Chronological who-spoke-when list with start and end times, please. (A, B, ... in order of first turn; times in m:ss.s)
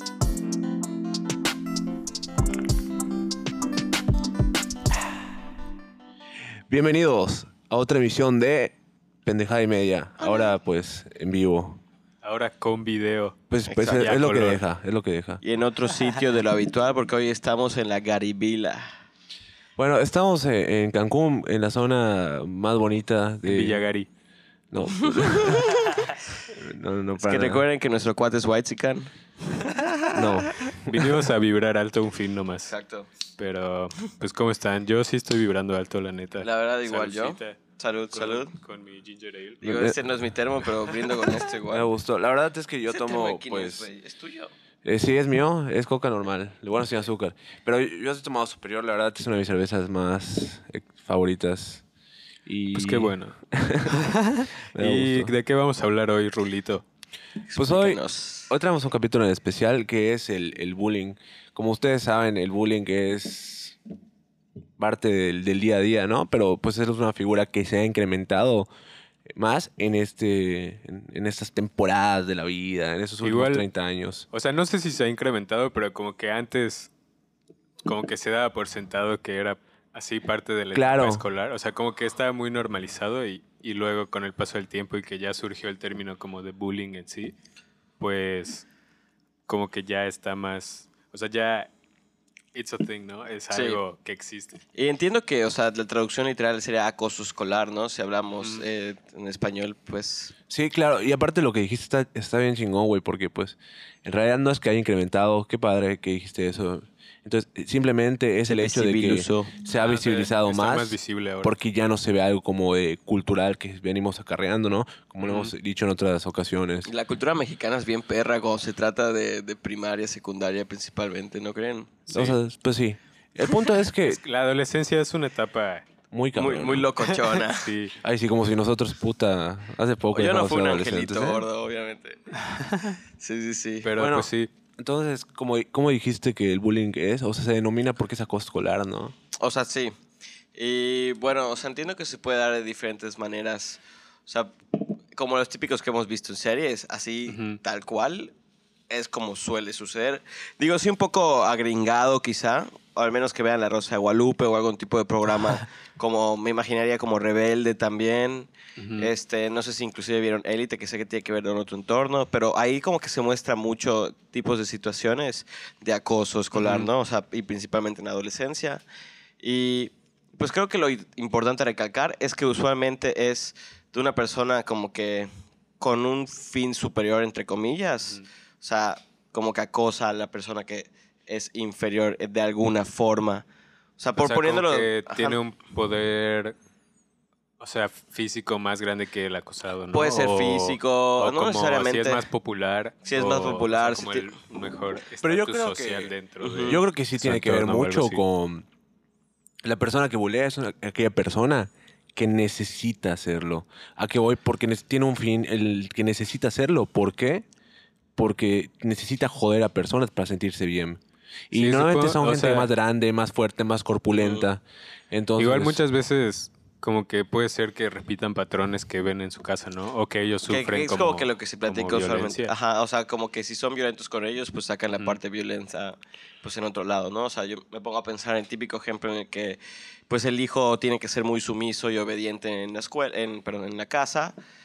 0:06.7-0:11.8 A
0:10.2-0:10.5 B
0:12.2-0:14.6 C
0:13.5-0:15.4 A
0:13.7-0:14.1 B
0:15.4-0:18.9 B
0:19.8-0:23.9 A
0:23.4-0:24.1 C
0:24.7-0:25.8 A
0:24.8-0:26.1 B
0:26.5-0:27.6 A
0:27.2-0:29.9 B
0:30.1-0:30.7 A
0:30.7-0:32.7 C
0:32.7-0:33.1 B
0:33.4-0:37.6 C
0:36.4-0:38.5 B
0:38.1-0:39.6 C
0:39.6-0:40.0 A
0:39.6-0:41.9 B
0:40.8-0:41.3 C
0:41.7-0:43.8 A
0:42.9-0:44.5 B
0:44.8-0:51.8 A
0:52.4-0:54.1 A
0:52.7-0:56.8 C
0:54.7-0:55.3 A
0:57.5-0:58.5 B
0:57.6-1:03.8 A
1:04.8-1:08.7 A
1:09.3-1:14.2 A
1:13.2-1:13.6 C
1:14.3-1:16.9 C
1:17.8-1:27.3 C
1:20.7-1:21.2 A
1:28.0-1:28.6 C
1:29.5-1:31.7 C
1:32.5-1:34.6 C
1:33.5-1:33.8 B
1:34.8-1:40.3 B
1:40.5-1:56.9 A
1:48.5-1:49.5 B
1:49.7-1:51.5 C
1:55.2-1:55.5 C
1:56.8-2:02.0 B
2:02.1-2:02.4 C
2:02.1-2:04.2 A
2:04.0-2:05.9 C
2:06.1-2:06.9 A
2:06.4-2:07.7 B
2:07.0-2:07.9 C
2:08.0-2:11.4 A
2:10.1-2:12.2 B
2:12.5-2:13.0 C
2:13.2-2:13.9 B
2:13.8-2:14.5 C
2:14.0-2:19.1 A
2:19.4-2:19.9 B
2:20.5-2:24.5 B
2:25.1-2:28.3 B
2:27.3-2:27.6 C
2:28.9-2:48.8 B
2:38.8-2:39.1 C
2:46.5-2:46.9 C
2:49.4-3:03.4 B
3:04.0-3:05.4 B
3:04.2-3:06.5 C
3:07.6-3:18.2 C
3:09.9-3:12.2 B
3:13.0-3:14.3 B
3:15.2-3:18.6 A
3:16.4-3:16.8 B
3:19.6-3:27.4 A
3:28.2-3:35.8 A
3:31.5-3:32.7 C
3:34.2-3:34.4 B
3:35.4-3:42.5 C
3:40.5-3:54.3 B